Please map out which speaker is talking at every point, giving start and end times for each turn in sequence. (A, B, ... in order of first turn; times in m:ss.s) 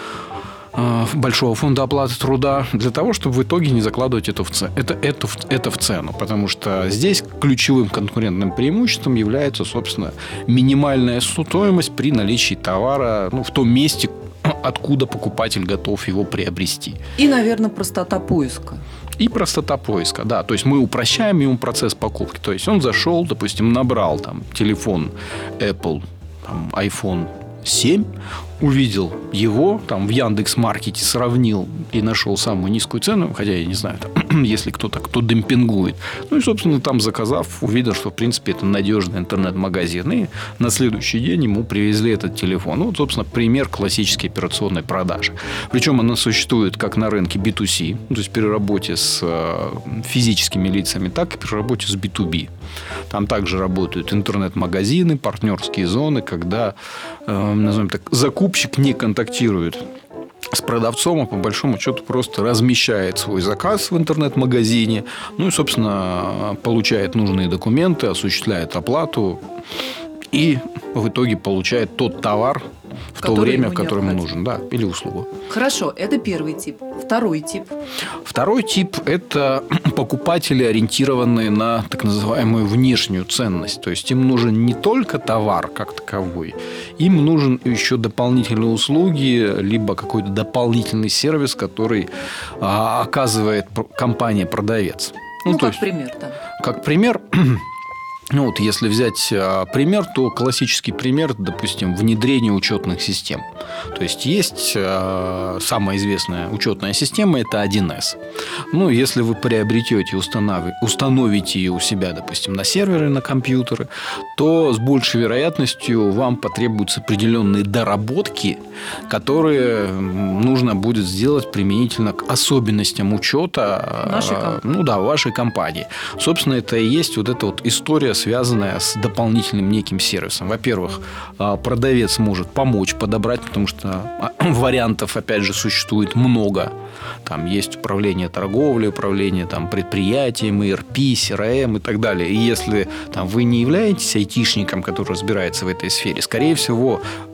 0:00.7-0:17.0 A
0:17.2-0:18.8 B
0:19.2-0:28.1 A
0:28.6-0:52.5 A
0:53.1-0:59.8 A
1:00.5-1:09.4 A
1:10.3-1:12.6 A
1:13.2-1:15.3 A
1:13.2-1:14.2 B
1:15.5-1:17.8 B
1:18.2-1:32.1 A
1:32.6-1:35.8 A
1:35.4-1:36.4 B
1:36.6-1:37.6 A
1:38.3-1:48.2 A
1:48.7-2:16.7 A
2:04.0-2:04.6 B
2:17.2-2:27.0 A